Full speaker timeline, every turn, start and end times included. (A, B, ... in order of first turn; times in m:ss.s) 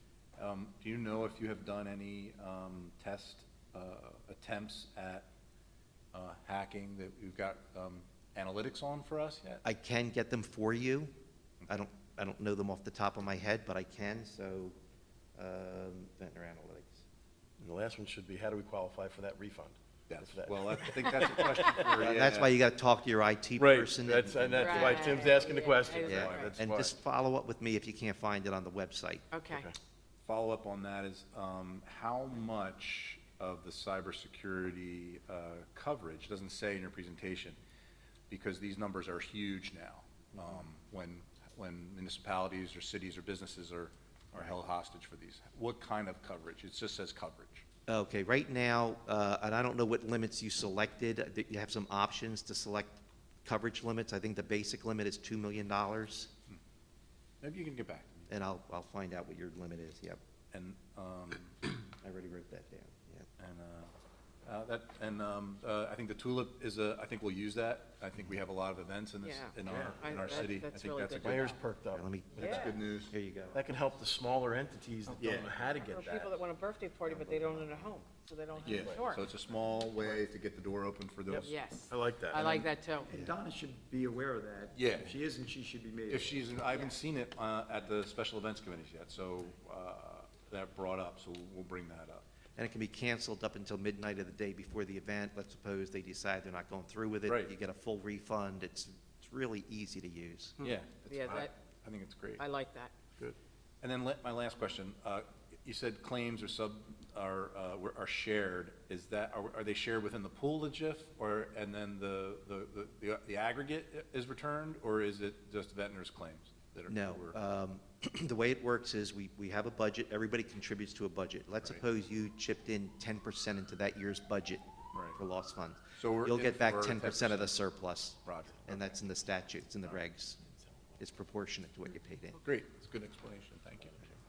0:00.4-0:05.3 A
0:06.1-0:09.6 A
0:09.6-0:11.1 B
0:11.7-0:14.7 B
0:15.3-0:17.0 B
0:17.6-0:22.0 C
0:20.1-0:22.5 A
0:22.0-0:25.2 B
0:23.6-0:26.9 C
0:24.5-0:26.5 D
0:26.0-0:26.7 A
0:26.0-0:29.2 B
0:29.3-0:29.7 D
0:29.5-0:29.8 C
0:30.2-0:37.6 A
0:38.3-0:47.6 A
0:47.9-0:56.3 B
0:57.4-0:58.2 A
0:58.3-1:00.2 B
1:00.5-1:01.6 A
1:02.0-1:03.3 B
1:03.4-1:03.9 A
1:04.4-1:11.6 A
1:09.2-1:11.6 D
1:09.7-1:10.1 C
1:11.2-1:12.7 C
1:11.9-1:13.6 B
1:12.4-1:12.8 D
1:12.4-1:13.1 A
1:13.5-1:16.2 C
1:15.2-1:15.6 A
1:15.2-1:16.4 E
1:15.6-1:19.2 D
1:18.6-1:21.6 A
1:18.6-1:19.0 C
1:21.3-1:22.5 C
1:21.4-1:23.1 D
1:22.4-1:26.6 E
1:24.7-1:25.2 A
1:26.1-1:32.2 A
1:26.7-1:26.9 D
1:32.6-1:40.6 B
1:37.3-1:37.5 A
1:40.6-1:42.4 A
1:41.0-1:41.5 D
1:42.4-1:42.9 D
1:43.8-1:57.4 A
1:56.9-2:04.6 B
2:04.9-2:05.2 A
2:05.1-2:10.4 B
2:06.0-2:07.6 A
2:08.2-2:08.9 A
2:11.0-2:12.4 B
2:12.4-2:14.2 A